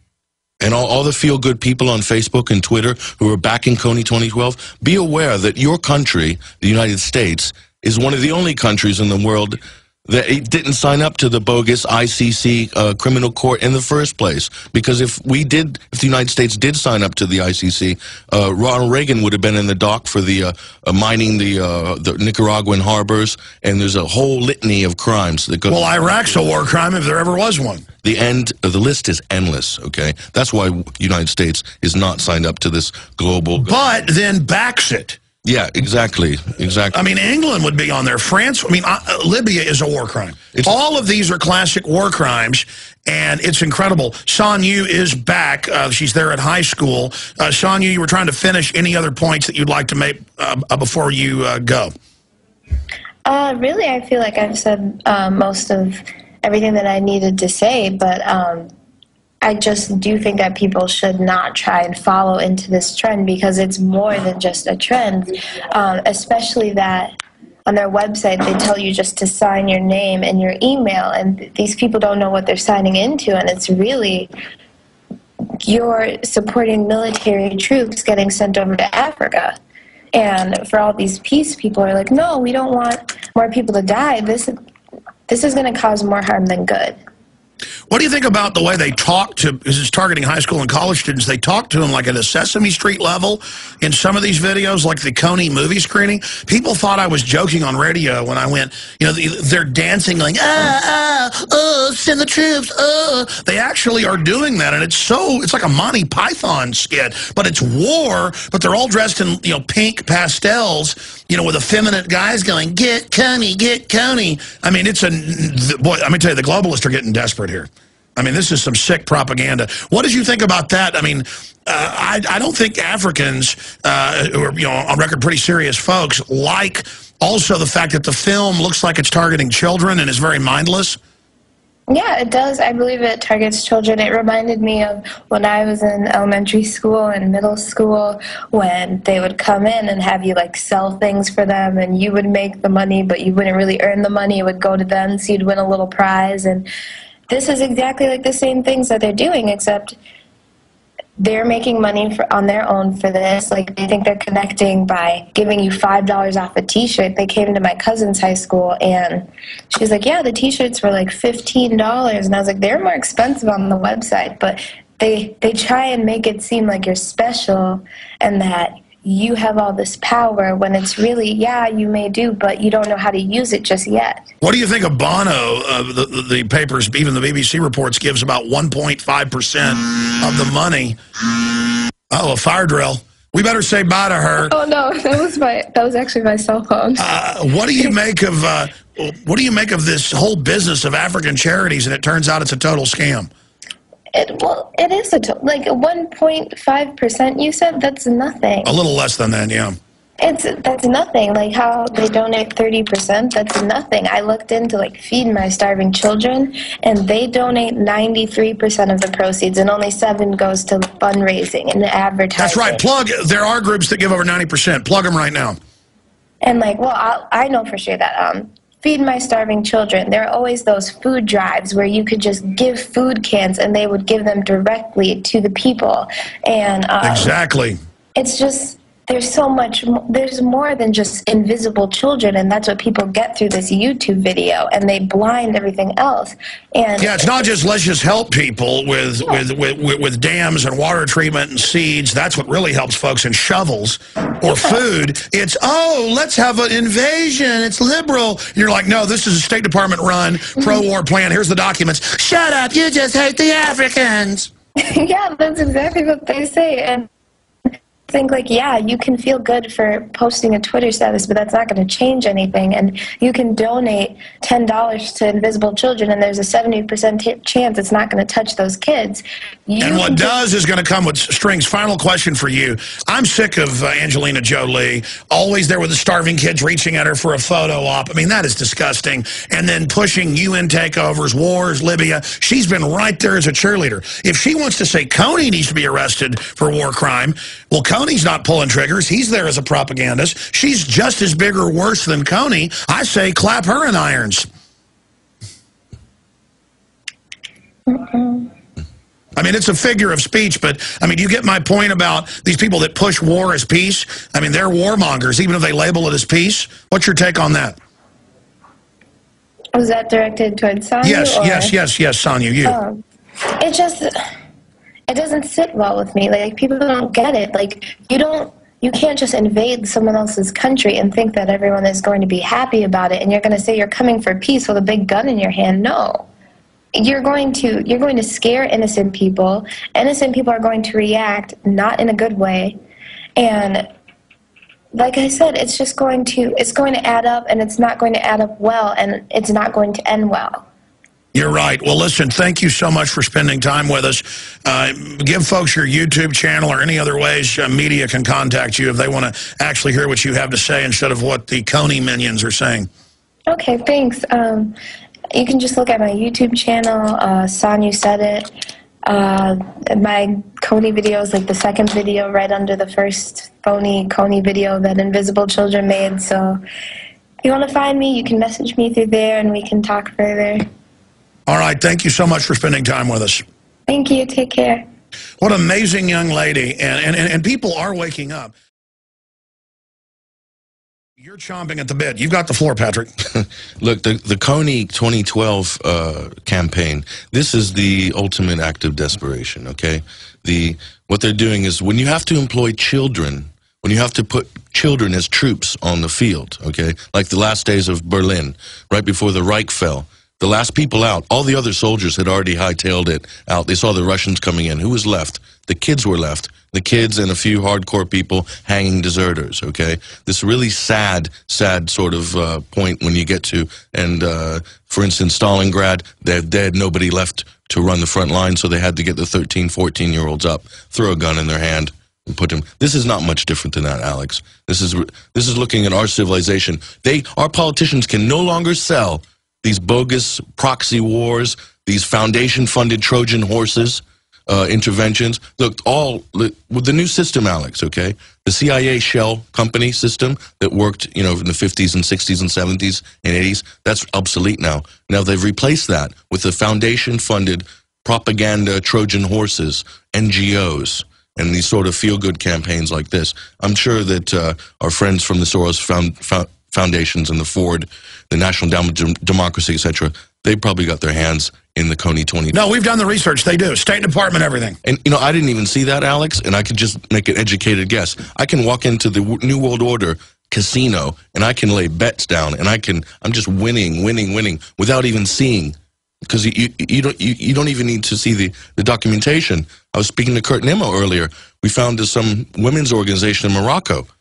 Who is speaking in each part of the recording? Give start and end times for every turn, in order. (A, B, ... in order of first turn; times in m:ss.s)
0:00.6-0:26.0 A
0:25.7-0:27.9 B
0:28.0-0:33.8 A
0:33.6-0:35.2 B
0:35.4-0:37.0 A
0:36.9-0:51.9 B
0:53.2-0:58.7 C
0:59.4-1:14.3 C
1:15.6-1:19.6 C
1:20.1-1:24.5 C
1:25.3-1:27.0 C
1:27.9-2:11.0 B
2:11.9-2:26.7 C
2:27.3-2:30.0 C
2:31.2-2:54.2 C
2:54.4-3:01.0 B
3:02.1-3:04.5 B
3:04.4-3:07.0 C
3:07.0-3:13.3 B
3:14.1-3:18.8 C
3:18.6-3:19.8 B
3:20.2-3:32.8 C
3:32.4-3:35.6 B
3:36.4-3:47.3 C
3:47.0-3:47.8 B
3:48.2-3:57.4 C
3:57.0-4:14.5 B
4:14.8-4:17.1 C
4:18.1-4:30.4 C
4:29.8-4:54.5 B
4:57.9-4:58.5 C
4:59.4-5:07.8 B
5:09.7-5:11.7 C
5:11.0-5:12.8 B
5:12.6-5:14.2 C
5:15.1-5:26.3 C
5:26.9-5:32.8 C
5:33.4-5:33.9 C
5:34.9-5:40.6 C
5:41.3-5:52.9 B
5:53.5-5:54.7 C
5:55.3-5:58.5 C
5:59.0-6:06.6 C
6:07.4-6:10.6 C
6:11.5-6:13.4 B
6:13.9-6:14.8 C
6:15.4-6:18.5 B
6:21.2-6:23.1 B
6:23.3-7:42.6 A
7:42.5-7:44.8 B
7:44.8-7:55.7 A
7:56.3-8:04.1 A